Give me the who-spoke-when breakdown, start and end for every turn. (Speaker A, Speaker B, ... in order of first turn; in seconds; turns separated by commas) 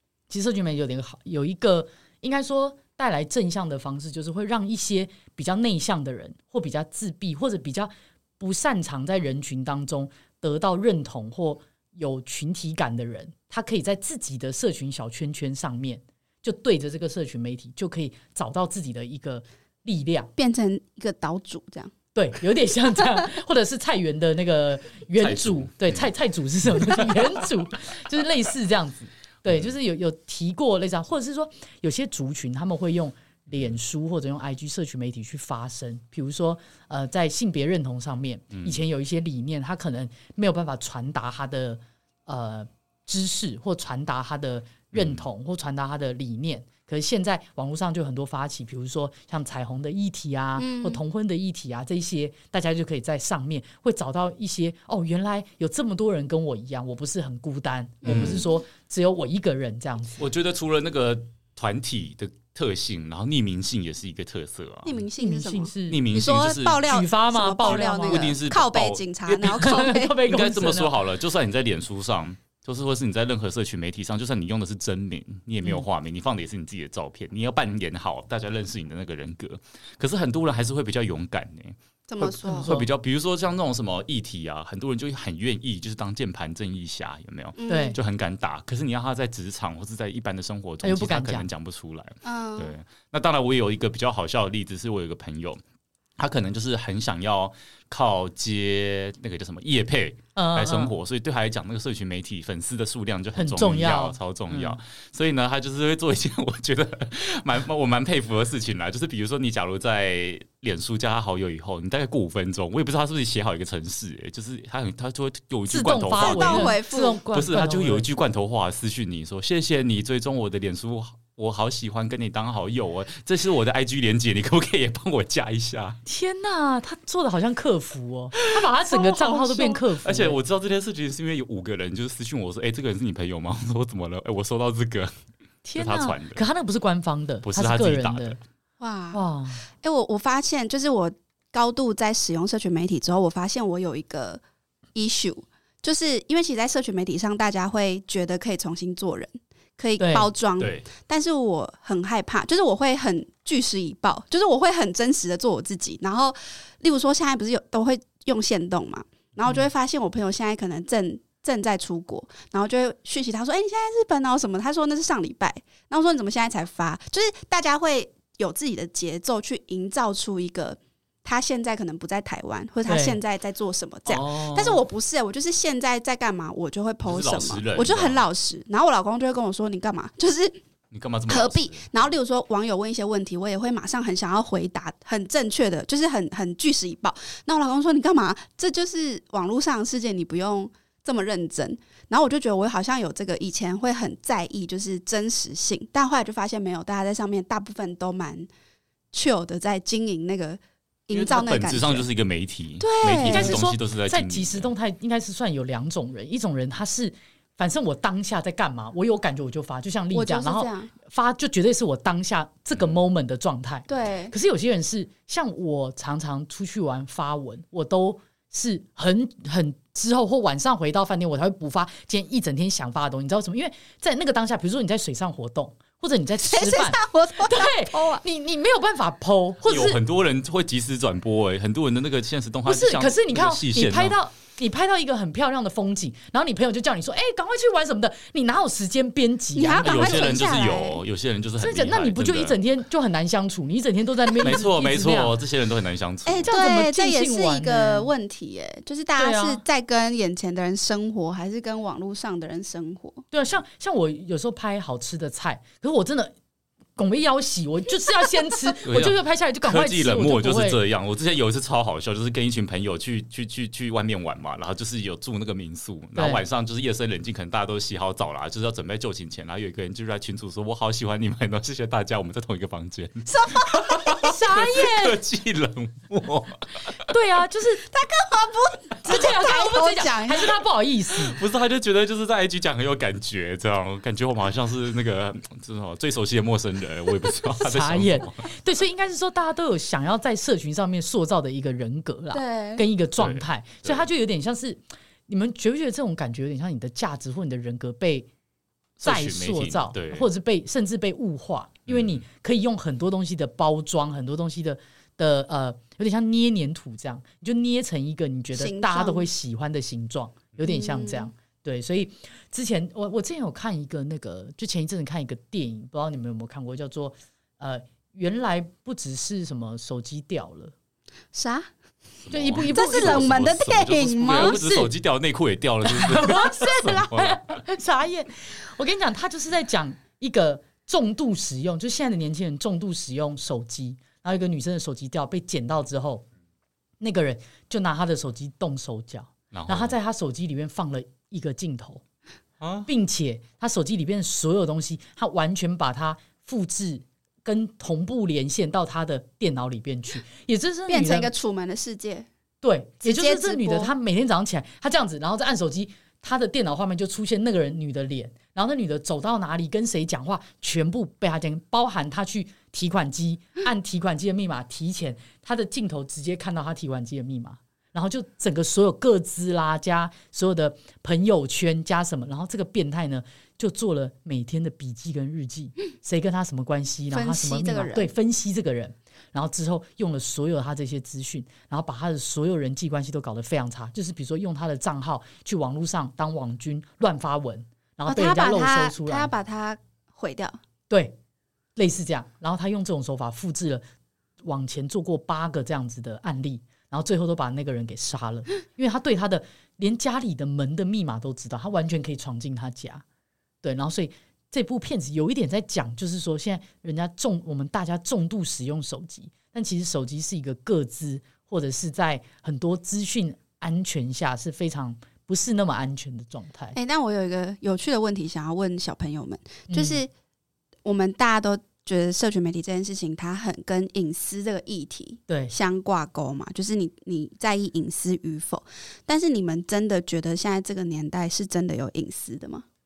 Speaker A: 0.3-20.3, Speaker B: 20.4-21.9, Speaker A: 22.1-60.2, Speaker C: 25.1-26.1, Speaker C: 29.5-29.7, Speaker C: 38.5-38.8, Speaker C: 44.9-45.3, Speaker B: 50.6-51.0, Speaker B: 58.0-58.5, Speaker C: 58.0-58.4, Speaker C: 60.2-65.0, Speaker B: 64.8-70.2, Speaker A: 65.2-66.0, Speaker C: 65.9-66.8, Speaker A: 66.8-68.3, Speaker C: 67.7-95.6, Speaker A: 69.5-70.9, Speaker B: 82.1-82.8, Speaker A: 82.2-82.9, Speaker B: 87.6-88.0, Speaker A: 87.7-88.0, Speaker A: 90.8-91.5, Speaker B: 92.2-92.7, Speaker C: 96.2-116.8, Speaker A: 100.4-100.9, Speaker A: 103.4-104.8, Speaker A: 115.7-118.1, Speaker B: 116.2-117.2, Speaker C: 117.3-126.0, Speaker A: 126.1-130.4, Speaker C: 128.4-135.1, Speaker B: 129.0-129.8, Speaker A: 135.6-138.4, Speaker C: 135.8-136.4, Speaker C: 137.4-138.4, Speaker B: 138.8-144.4, Speaker A: 139.1-139.6, Speaker B: 144.9-180.6, Speaker A: 150.0-150.3, Speaker C: 150.6-150.9, Speaker A: 172.9-173.2, Speaker C: 174.1-174.8, Speaker C: 177.1-178.2, Speaker C: 180.9-182.1, Speaker B: 181.3-198.5, Speaker B: 199.1-202.1, Speaker C: 201.1-204.7, Speaker B: 202.8-203.6, Speaker A: 203.2-230.0, Speaker B: 210.1-210.9, Speaker B: 213.9-214.3, Speaker B: 226.4-228.2, Speaker C: 229.7-234.2, Speaker A: 232.7-240.4, Speaker B: 239.6-241.0, Speaker C: 239.8-242.6, Speaker A: 241.6-245.4, Speaker C: 244.4-246.5, Speaker B: 246.3-253.2, Speaker A: 246.5-248.1, Speaker A: 249.2-249.6, Speaker A: 253.3-256.3, Speaker A: 257.0-260.8, Speaker C: 258.8-277.0, Speaker A: 266.2-266.4, Speaker B: 273.3-274.2, Speaker A: 274.1-275.2, Speaker A: 277.0-277.8, Speaker B: 277.8-280.6, Speaker A: 279.0-281.4, Speaker C: 281.1-288.5, Speaker A: 287.6-298.3, Speaker B: 292.3-292.9, Speaker C: 293.2-294.1, Speaker C: 299.0-300.3, Speaker A: 299.0-320.7, Speaker C: 301.9-302.2, Speaker B: 308.5-309.3, Speaker B: 310.6-311.3, Speaker B: 321.3-321.7, Speaker C: 322.3-327.6, Speaker A: 322.3-323.4, Speaker B: 322.7-324.6, Speaker A: 324.3-324.9, Speaker A: 325.9-336.2, Speaker B: 326.6-327.0, Speaker A: 337.0-342.0, Speaker C: 339.5-340.0, Speaker C: 342.6-342.9, Speaker A: 342.9-351.3, Speaker B: 350.9-352.3, Speaker A: 352.6-389.3, Speaker B: 353.0-353.9, Speaker B: 377.1-378.1, Speaker B: 388.1-390.6, Speaker A: 390.9-391.1, Speaker A: 391.8-393.8, Speaker A: 394.4-403.0, Speaker A: 403.6-416.8, Speaker B: 416.8-420.1, Speaker A: 419.7-420.0, Speaker B: 420.9-432.6, Speaker A: 425.3-425.5